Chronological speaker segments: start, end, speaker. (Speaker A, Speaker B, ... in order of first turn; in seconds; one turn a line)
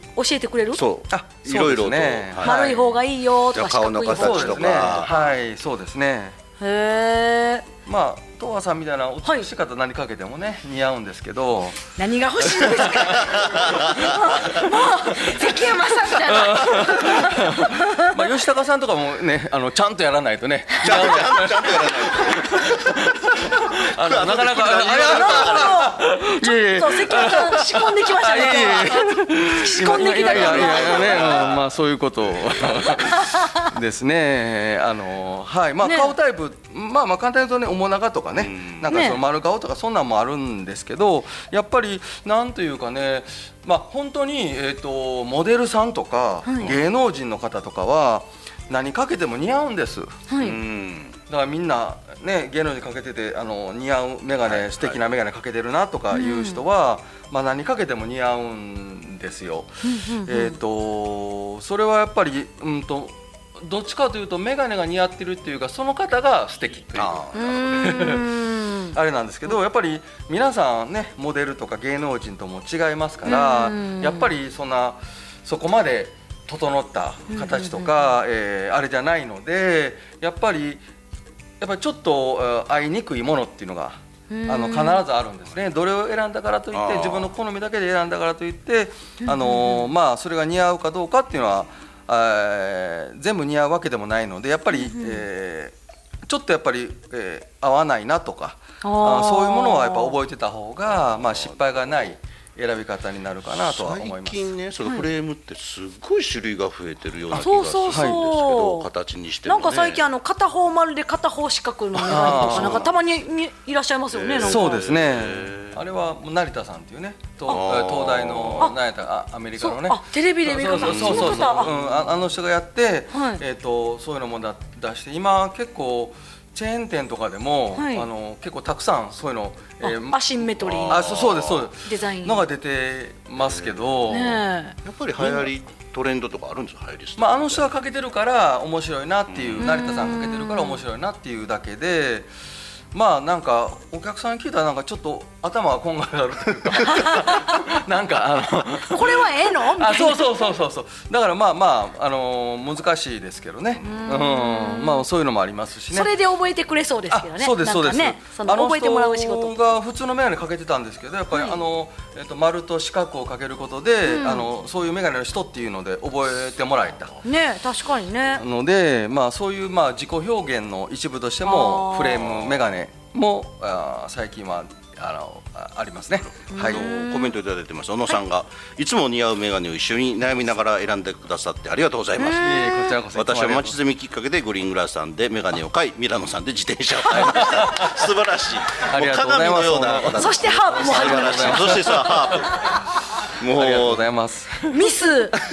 Speaker A: 0.1-0.8
Speaker B: 0.7-2.8
Speaker C: 1.1-2.9
Speaker A: 2.4-5.2
Speaker B: 3.5-5.2
Speaker C: 4.1-6.4
Speaker A: 6.6-7.7
Speaker C: 7.8-11.8
Speaker A: 9.2-9.5
Speaker A: 12.0-18.1
Speaker C: 12.4-13.2
Speaker B: 13.1-14.6
Speaker C: 15.1-50.6
Speaker B: 20.8-25.8
Speaker A: 25.1-31.5
Speaker B: 30.0-33.2
Speaker A: 33.0-33.6
Speaker A: 35.8-36.1
Speaker B: 38.4-39.0
Speaker A: 38.9-39.2
Speaker A: 46.4-46.7
Speaker A: 50.3-50.6
Speaker B: 50.4-51.2
Speaker C: 51.3-67.3
Speaker B: 54.5-55.0
Speaker A: 56.1-56.6
Speaker A: 59.8-60.6
Speaker B: 66.9-68.0
Speaker A: 67.3-68.9
Speaker C: 67.8-68.3
Speaker C: 68.9-80.8
Speaker A: 73.2-74.3
Speaker A: 77.3-78.2
Speaker C: 81.6-95.7
Speaker A: 84.3-85.0
Speaker B: 86.7-87.3
Speaker A: 89.2-89.9
Speaker A: 94.7-95.2
Speaker C: 96.3-104.5
Speaker A: 98.8-100.2
Speaker B: 100.9-101.8
Speaker B: 103.5-110.0
Speaker C: 107.3-108.2
Speaker A: 107.3-108.9
Speaker A: 109.4-114.8
Speaker B: 112.0-112.9
Speaker C: 112.1-112.9
Speaker B: 114.1-115.8
Speaker C: 114.4-130.2
Speaker B: 117.5-118.7
Speaker A: 119.6-121.8
Speaker B: 120.7-121.7
Speaker A: 123.1-123.4
Speaker A: 127.7-128.1
Speaker A: 129.8-131.2
Speaker B: 130.5-131.7
Speaker C: 130.9-134.4
Speaker A: 131.8-132.5
Speaker A: 134.1-135.4
Speaker B: 134.8-137.7
Speaker C: 137.2-142.3
Speaker B: 139.3-139.7
Speaker A: 139.6-140.8
Speaker C: 142.9-156.1
Speaker A: 146.8-147.6
Speaker A: 148.9-150.4
Speaker A: 153.8-155.1
Speaker A: 155.9-159.6
Speaker C: 157.1-167.1
Speaker A: 161.3-161.6
Speaker A: 164.0-164.5
Speaker A: 167.2-168.4
Speaker C: 168.3-176.8
Speaker A: 171.4-172.3
Speaker B: 172.3-172.6
Speaker B: 176.3-182.6
Speaker A: 176.5-177.4
Speaker A: 182.2-182.9
Speaker C: 182.3-183.8
Speaker B: 183.1-194.1
Speaker A: 187.0-187.6
Speaker C: 187.1-188.0
Speaker C: 188.9-192.7
Speaker A: 190.2-192.6
Speaker C: 193.4-194.8
Speaker A: 194.7-195.4